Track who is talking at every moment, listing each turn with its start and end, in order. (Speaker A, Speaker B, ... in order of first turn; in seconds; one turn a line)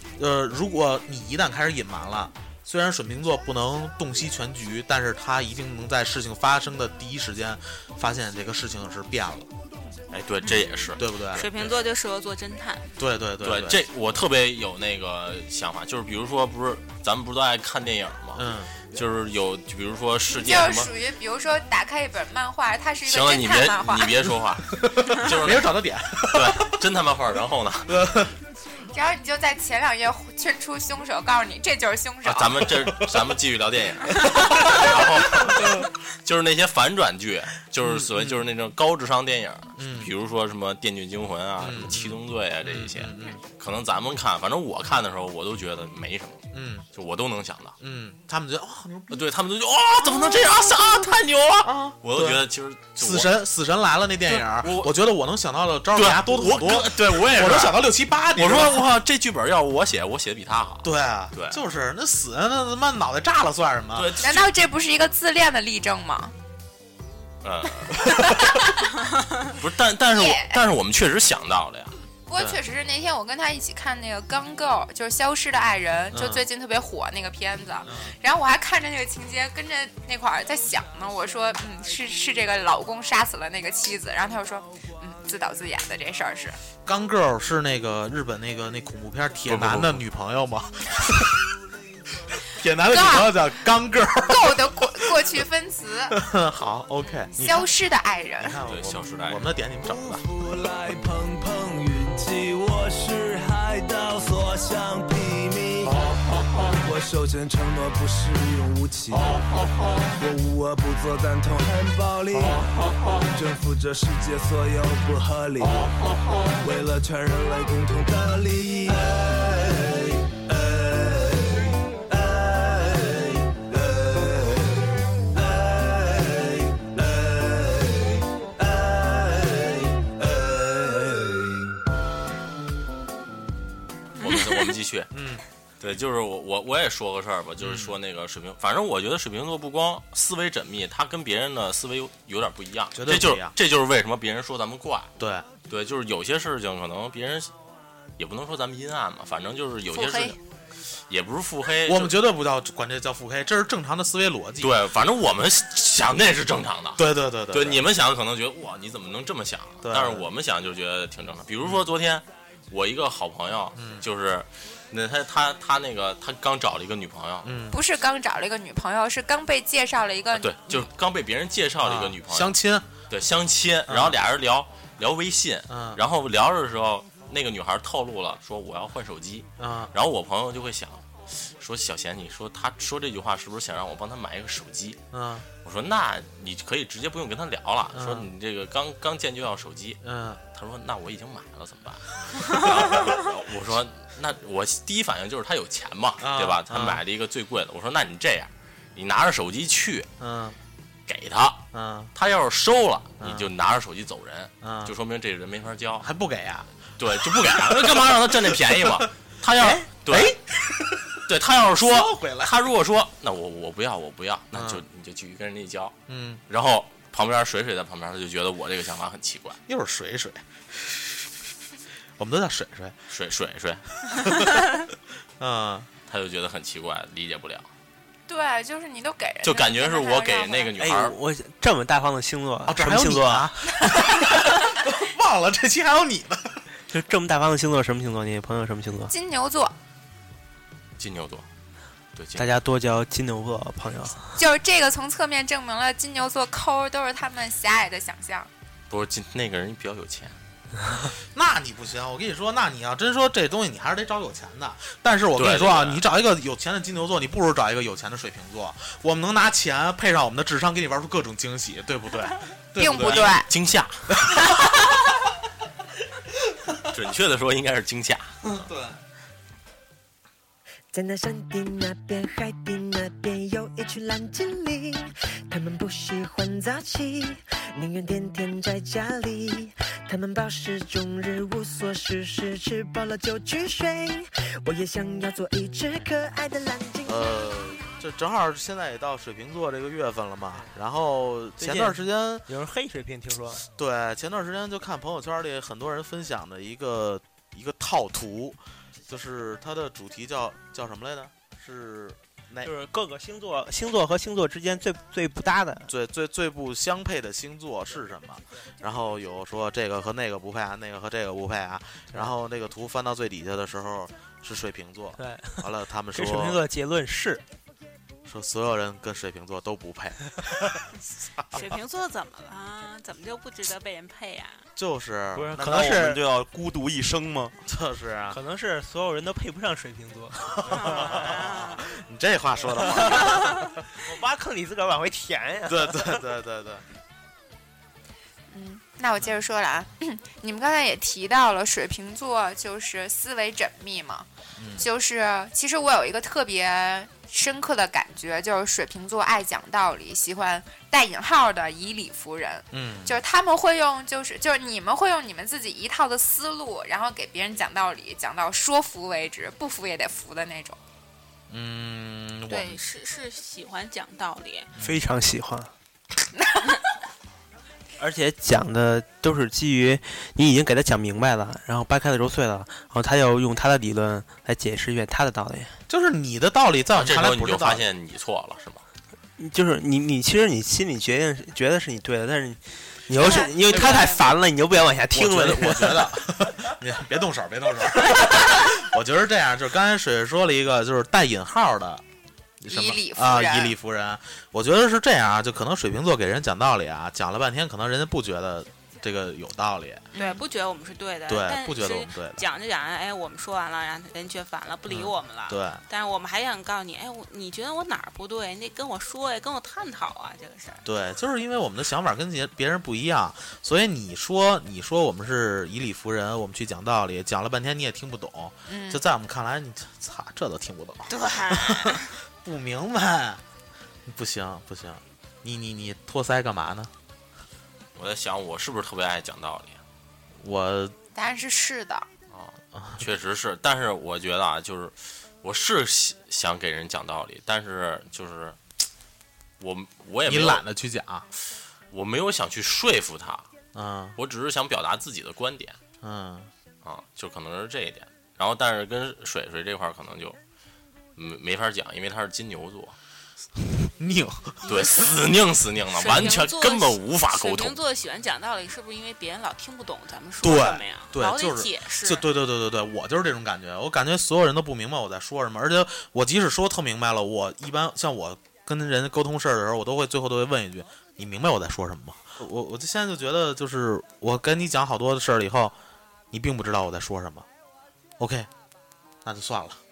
Speaker A: 0.2-9.5
Speaker B: 10.1-11.0
Speaker A: 11.0-11.5
Speaker C: 11.3-12.9
Speaker A: 13.0-13.8
Speaker B: 13.4-20.9
Speaker A: 18.3-18.7
Speaker D: 20.3-24.2
Speaker B: 23.0-28.2
Speaker A: 24.7-26.7
Speaker A: 27.9-28.3
Speaker D: 28.9-32.7
Speaker B: 32.2-46.4
Speaker A: 34.2-35.8
Speaker A: 37.8-38.4
Speaker A: 39.8-40.1
Speaker A: 41.6-43.4
Speaker A: 46.5-46.8
Speaker B: 46.9-47.7
Speaker A: 47.8-49.2
Speaker B: 49.1-53.3
Speaker A: 51.6-52.4
Speaker A: 53.0-59.0
Speaker B: 54.3-54.9
Speaker B: 55.9-61.6
Speaker A: 60.8-64.2
Speaker B: 63.9-64.5
Speaker D: 64.2-66.3
Speaker B: 67.4-68.0
Speaker D: 68.0-68.9
Speaker B: 69.5-71.9
Speaker D: 70.1-70.6
Speaker D: 72.3-86.6
Speaker A: 76.1-76.4
Speaker A: 86.8-91.4
Speaker B: 89.5-90.0
Speaker A: 92.5-95.3
Speaker D: 92.9-93.4
Speaker D: 94.2-96.2
Speaker A: 96.1-97.8
Speaker D: 97.4-98.6
Speaker A: 98.4-100.2
Speaker B: 98.7-99.5
Speaker E: 99.9-131.7
Speaker B: 134.2-135.1
Speaker A: 135.1-135.4
Speaker B: 135.8-145.1
Speaker A: 137.6-137.9
Speaker A: 142.9-143.5
Speaker A: 145.2-145.5
Speaker B: 145.7-147.5
Speaker B: 148.2-150.4
Speaker B: 151.1-152.2
Speaker A: 151.8-154.7
Speaker B: 154.6-167.5
Speaker A: 156.9-157.8
Speaker A: 159.8-160.3
Speaker A: 163.8-164.0
Speaker A: 167.4-167.8
Speaker D: 167.7-170.8
Speaker B: 170.3-172.6
Speaker A: 171.8-172.9
Speaker B: 173.1-185.0
Speaker A: 173.9-174.2
Speaker A: 175.7-176.0
Speaker A: 179.6-179.9
Speaker A: 185.1-185.5
Speaker B: 185.6-190.0
Speaker A: 187.9-188.3
Speaker A: 190.0-190.4
Speaker B: 190.5-200.1
Speaker A: 196.2-197.0
Speaker A: 200.2-200.6
Speaker B: 201.1-206.1
Speaker A: 201.7-202.1
Speaker A: 203.2-203.5
Speaker A: 204.6-204.9
Speaker A: 206.0-211.2
Speaker B: 207.0-210.4
Speaker B: 211.2-215.9
Speaker A: 211.8-212.6
Speaker A: 214.5-214.8
Speaker A: 216.1-216.4
Speaker B: 216.5-219.6
Speaker A: 219.7-221.3
Speaker A: 222.2-223.0
Speaker B: 223.1-223.8
Speaker A: 224.1-224.7
Speaker A: 225.4-225.9
Speaker B: 226.1-227.7
Speaker D: 228.3-230.7
Speaker B: 229.4-231.2
Speaker F: 230.8-233.6
Speaker A: 232.7-236.6
Speaker F: 236.9-239.1
Speaker D: 239.1-239.7
Speaker B: 241.0-241.4
Speaker B: 242.1-242.4
Speaker F: 242.3-244.3
Speaker D: 244.3-248.5
Speaker B: 248.9-250.4
Speaker A: 251.3-263.4
Speaker B: 255.4-256.0
Speaker D: 262.8-263.5
Speaker B: 262.9-264.1
Speaker A: 264.1-264.8
Speaker B: 266.9-268.3
Speaker A: 268.4-269.0
Speaker G: 270.9-287.3
Speaker A: 287.0-292.4
Speaker F: 291.6-293.6
Speaker A: 293.8-302.7
Speaker F: 302.6-305.9
Speaker A: 305.9-316.6
Speaker F: 315.2-317.4
Speaker A: 318.2-320.8
Speaker C: 321.5-324.7
Speaker A: 324.8-325.5
Speaker F: 325.3-326.2
Speaker H: 325.5-327.5
Speaker A: 327.6-328.4
Speaker F: 328.3-331.3
Speaker C: 330.6-331.8
Speaker A: 330.6-333.6
Speaker F: 332.8-336.1
Speaker A: 335.7-336.8
Speaker D: 338.5-344.3
Speaker A: 344.6-344.9
Speaker D: 344.8-360.8
Speaker A: 352.7-353.2
Speaker A: 361.5-362.8
Speaker C: 362.5-364.7
Speaker F: 364.8-365.7
Speaker D: 366.4-366.6
Speaker F: 368.0-375.8
Speaker A: 375.9-377.8
Speaker B: 376.9-378.8
Speaker F: 379.4-386.1
Speaker D: 383.2-384.3
Speaker A: 383.8-384.1
Speaker A: 385.1-392.0
Speaker A: 392.6-400.1
Speaker D: 392.7-393.7
Speaker D: 400.1-400.4
Speaker C: 400.1-410.8
Speaker A: 401.3-402.4
Speaker A: 404.9-405.8
Speaker A: 410.9-423.4
Speaker D: 418.7-419.0
Speaker C: 421.1-422.1
Speaker A: 424.1-426.9
Speaker B: 427.9-429.8
Speaker A: 430.4-430.9
Speaker D: 431.1-432.1
Speaker B: 432.3-438.6
Speaker A: 432.7-433.0
Speaker B: 439.6-440.6
Speaker A: 440.2-441.2
Speaker B: 441.9-443.5
Speaker A: 443.7-444.1
Speaker B: 444.1-445.8
Speaker A: 446.0-446.5
Speaker B: 446.8-450.4
Speaker B: 451.1-452.9
Speaker A: 454.0-455.1
Speaker B: 454.6-457.8
Speaker C: 455.9-462.3
Speaker A: 460.4-475.8
Speaker A: 476.3-477.4
Speaker A: 478.2-478.5
Speaker A: 479.2-479.8